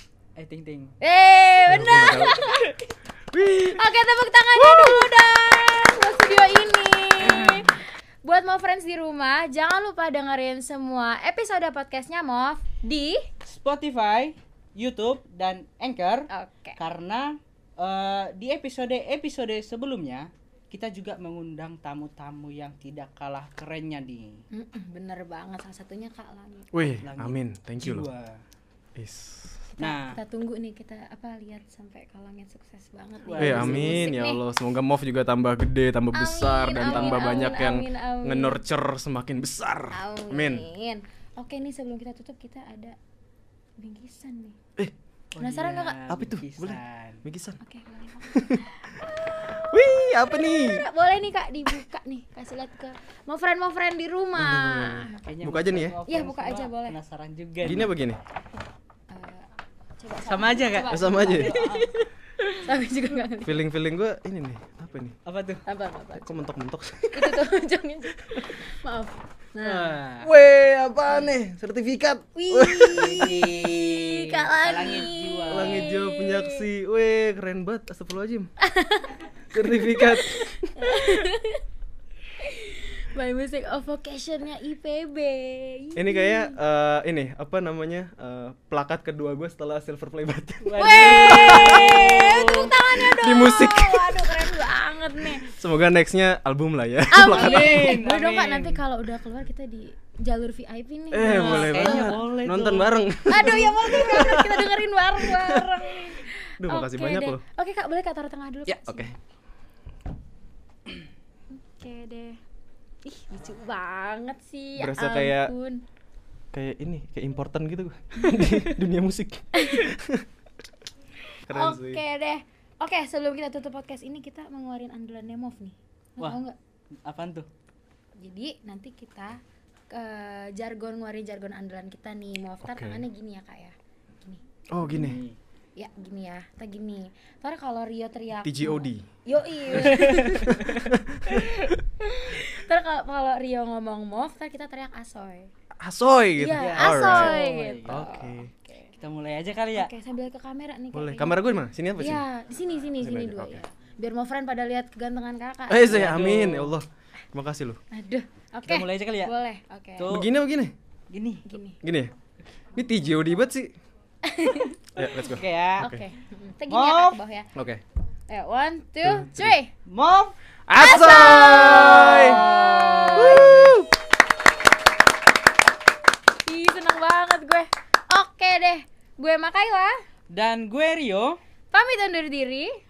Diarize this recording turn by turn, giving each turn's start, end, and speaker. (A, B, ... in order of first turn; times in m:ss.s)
0:00.4-0:00.9 A
0:01.0-0:02.9 B
0:01.7-0:02.4 C
0:03.3-0:03.8 C
0:03.4-0:13.3 B
0:04.6-0:05.2 C
0:13.4-0:24.4 A
0:16.3-0:16.8 B
0:24.5-0:26.7 B
0:26.7-0:28.1 C
0:27.0-0:28.4 A
0:29.0-0:29.7 C
0:29.8-0:34.4 B
0:29.8-0:30.2 A
0:33.2-0:34.2 A
0:33.4-0:40.7 C
0:36.1-0:38.6 B
0:36.8-0:37.7 A
0:39.9-0:43.0 B
0:43.8-0:44.6 B
0:45.3-0:47.2 A
0:45.4-0:46.0 B
0:46.1-0:47.6 C
0:47.6-0:55.2 B
0:48.2-0:50.8 C
0:54.4-0:56.0 C
0:55.2-0:57.9 A
0:56.1-0:57.0 B
0:57.6-0:58.2 C
0:59.1-0:59.5 B
1:00.0-1:03.6 B
1:00.2-1:02.0 A
1:00.9-1:01.6 C
1:03.4-1:05.2 C
1:05.2-1:05.6 A
1:05.7-1:06.5 B
1:06.2-1:07.4 C
1:07.1-1:10.0 B
1:09.6-1:10.3 A
1:10.2-1:13.3 C
1:12.4-1:16.6 B
1:12.9-1:15.9 A
1:15.5-1:18.5 C
1:18.6-1:21.6 B
1:19.5-1:21.1 C
1:22.4-1:26.6 B
1:26.0-1:32.3 C
1:30.6-1:32.8 A
1:30.8-1:35.5 B
1:33.0-1:34.3 C
1:35.4-1:38.0 C
1:37.1-1:42.2 B
1:37.3-1:38.8 A
1:41.1-1:45.9 C
1:41.3-1:43.0 A
1:43.3-1:49.1 B
1:46.6-1:47.4 C
1:51.5-1:52.4 B
1:53.0-1:55.8 B
1:54.8-1:55.5 C
1:56.5-2:00.3 C
1:59.6-1:59.9 B
2:01.5-2:02.0 C
2:01.5-2:06.6 B
2:07.0-2:07.5 A
2:08.2-2:14.4 B
2:12.6-2:13.0 C
2:14.7-2:15.2 C
2:14.8-2:15.4 A
2:15.8-2:20.9 B
2:18.4-2:19.1 C
2:19.7-2:20.6 A
2:19.8-2:21.8 C
2:21.6-2:25.5 B
2:25.8-2:28.5 C
2:26.4-2:28.9 B
2:26.5-2:28.1 A
2:28.9-2:29.9 A
2:29.8-2:36.3 B
2:30.9-2:32.2 C
2:33.0-2:33.6 C
2:35.7-2:37.8 C
2:35.9-2:36.8 A
2:37.9-2:40.2 B
2:38.6-2:39.3 A
2:40.0-2:40.3 A
2:40.1-2:40.7 C
2:41.1-2:41.5 A
2:41.5-2:41.8 B
2:41.8-2:42.1 C
2:42.8-2:43.8 C
2:44.2-2:44.8 B
2:45.0-2:46.0 C
2:45.2-2:45.9 A
2:45.8-2:47.5 B
2:46.7-2:47.2 A
2:47.6-2:47.8 C
2:48.3-2:49.7 B
2:49.0-2:49.6 C
2:49.9-2:50.3 A
2:50.7-2:52.5 C
2:50.8-2:53.8 B
2:51.0-2:53.8 A
2:53.1-2:53.9 C
2:56.5-3:00.0 B
3:00.3-3:01.4 A
3:01.7-3:02.8 B